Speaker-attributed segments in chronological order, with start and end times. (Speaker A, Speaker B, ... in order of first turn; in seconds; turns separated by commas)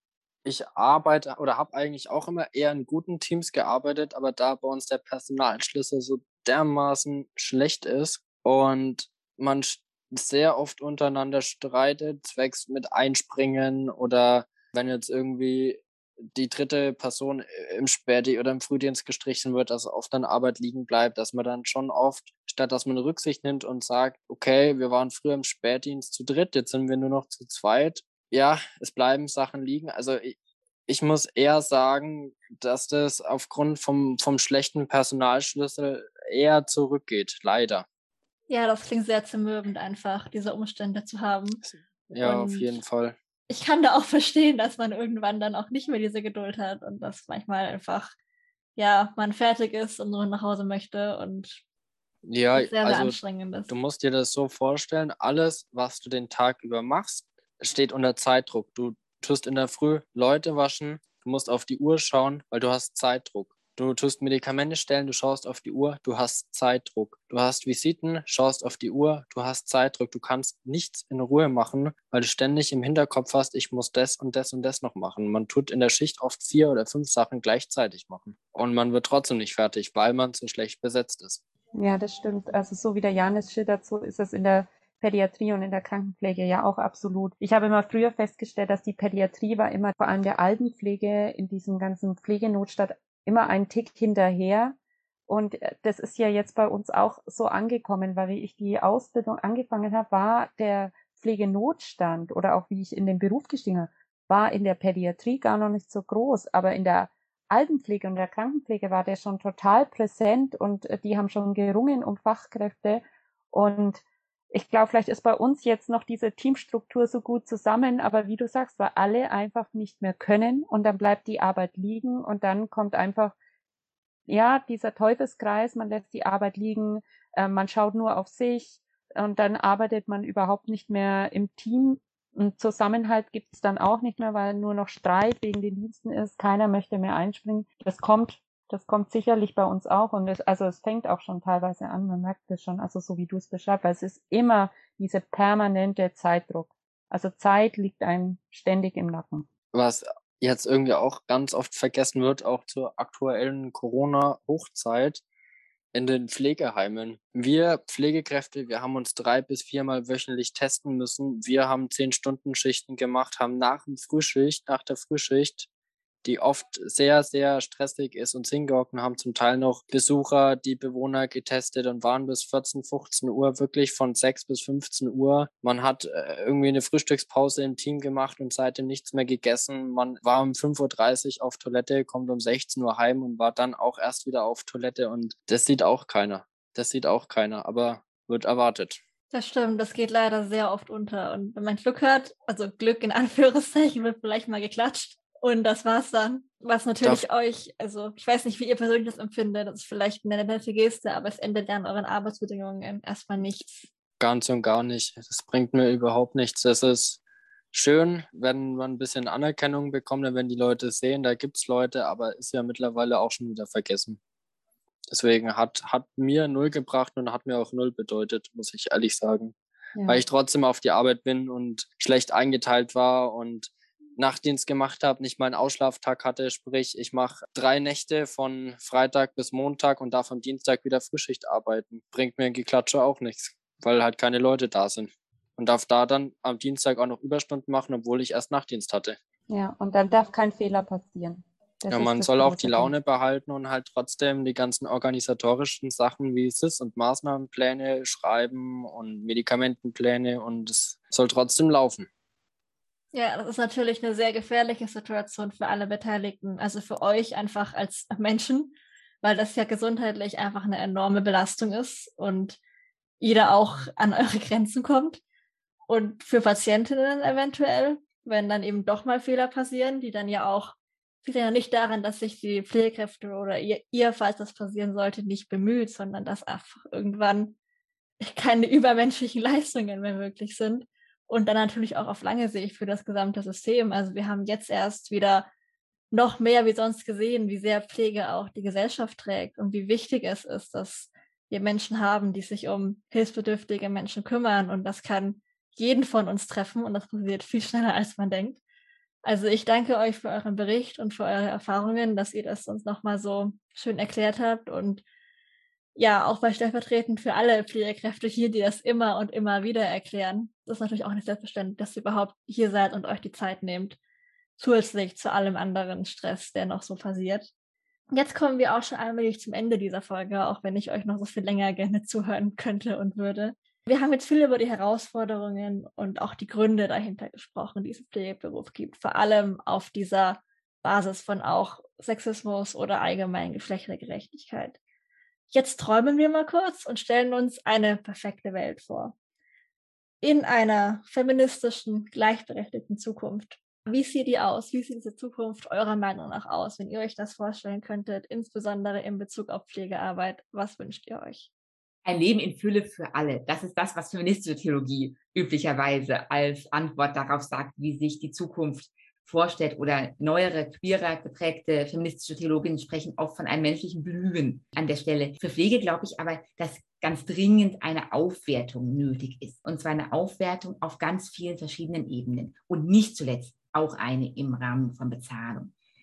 Speaker A: 0.5-15.8, Speaker A: 16.3-30.4, Speaker A: 30.9-37.9, Speaker B: 38.5-41.6, Speaker A: 42.1-43.1, Speaker B: 42.2-42.8, Speaker B: 43.5-48.1, Speaker B: 48.8-51.6, Speaker A: 52.2-81.4, Speaker B: 52.5-53.7, Speaker C: 81.8-94.8, Speaker C: 95.3-123.3, Speaker C: 124.3-149.5, Speaker A: 149.7-155.2, Speaker A: 155.9-165.7, Speaker A: 166.2-189.0, Speaker B: 189.3-203.9, Speaker A: 204.2-207.2, Speaker A: 207.7-214.2, Speaker A: 215.1-219.6, Speaker C: 220.0-220.2, Speaker A: 220.1-239.2, Speaker C: 239.5-242.9, Speaker A: 241.9-252.1, Speaker B: 253.1-262.6, Speaker B: 263.2-265.2, Speaker B: 265.9-277.6, Speaker B: 278.2-285.5, Speaker B: 286.1-298.6, Speaker B: 299.2-305.0, Speaker B: 306.0-314.0, Speaker B: 314.6-317.5, Speaker B: 318.1-334.8, Speaker B: 335.5-339.1, Speaker B: 340.2-351.5, Speaker D: 352.1-375.7